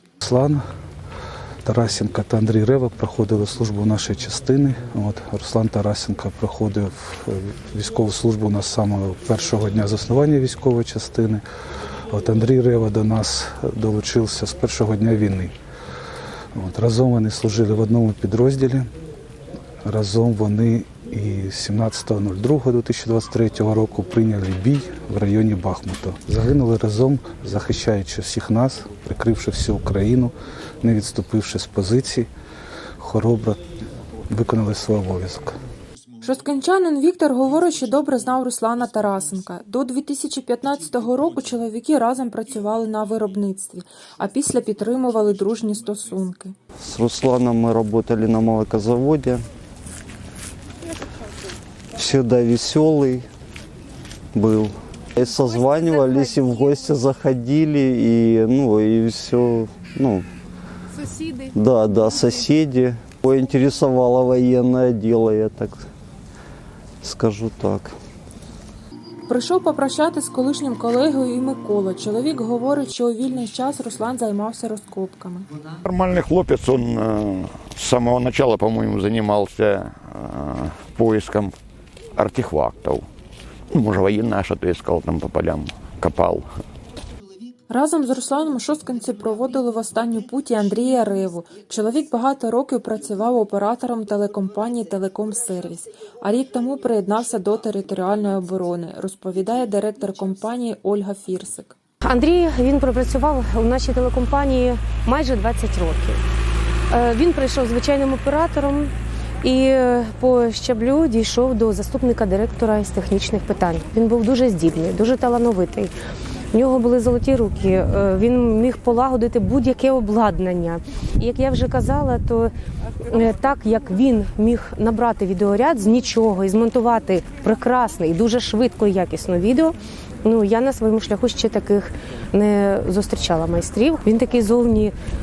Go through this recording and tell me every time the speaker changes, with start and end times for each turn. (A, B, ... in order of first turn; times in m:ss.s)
0:00.2-0:00.6 A
0:01.6-0:11.4 A
0:12.1-0:15.5 A
0:16.5-0:18.9 A
0:19.8-0:32.3 A
0:33.0-0:33.6 A
0:34.3-0:35.6 A
0:36.2-0:46.5 B
0:46.8-0:49.4 C
0:51.9-0:53.2 C
0:54.3-1:00.3 C
1:01.4-1:05.9 C
1:07.0-1:07.9 C
1:09.3-1:15.5 B
1:15.8-1:21.5 D
1:22.2-1:23.0 D
1:23.7-1:26.5 D
1:27.7-1:41.7 B
1:42.0-1:46.2 E
1:46.9-1:48.9 E
1:49.4-1:55.9 E
1:56.5-2:02.5 E
2:03.0-2:14.9 E